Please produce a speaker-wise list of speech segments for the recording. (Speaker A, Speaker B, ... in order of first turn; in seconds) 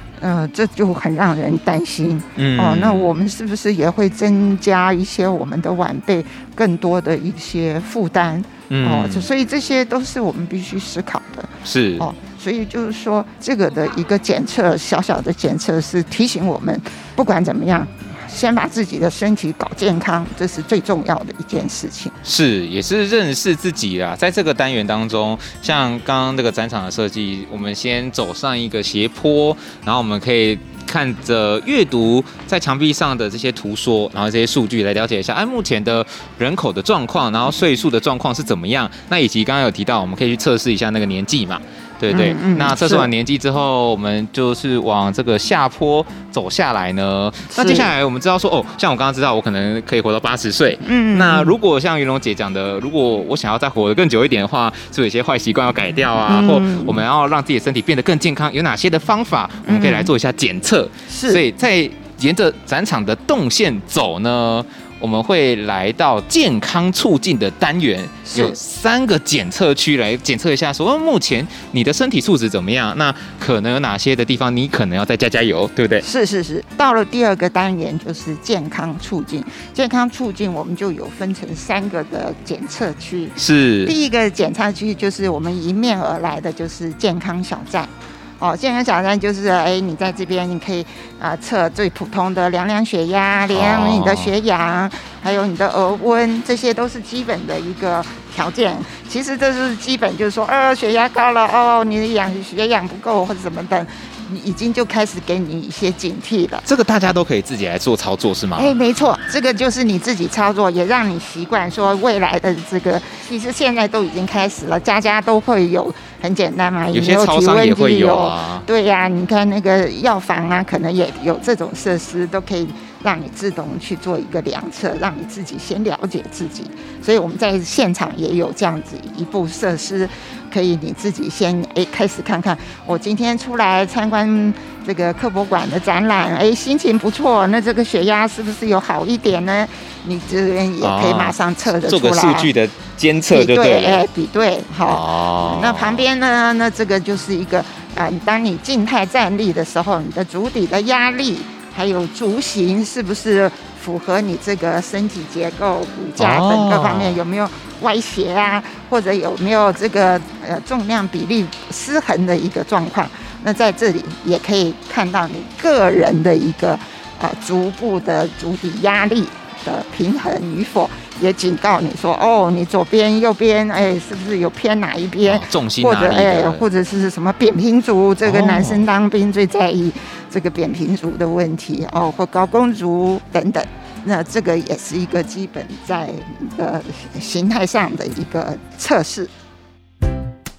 Speaker A: 0.2-22.1, 42.1-43.1, 47.5-47.9, 50.8-51.5, 56.2-57.0, 59.6-60.1, 61.1-61.4, 68.3-68.6, 76.0-106.6, 108.5-142.5, 143.3-189.3
Speaker B: 2.4-3.1, 8.7-9.3, 11.7-12.1, 22.2-76.0, 83.4-83.9, 93.5-94.3, 106.7-108.7, 116.9-118.6, 140.8-144.0, 144.8-146.1, 156.2-157.2, 175.2-176.6, 178.2-178.8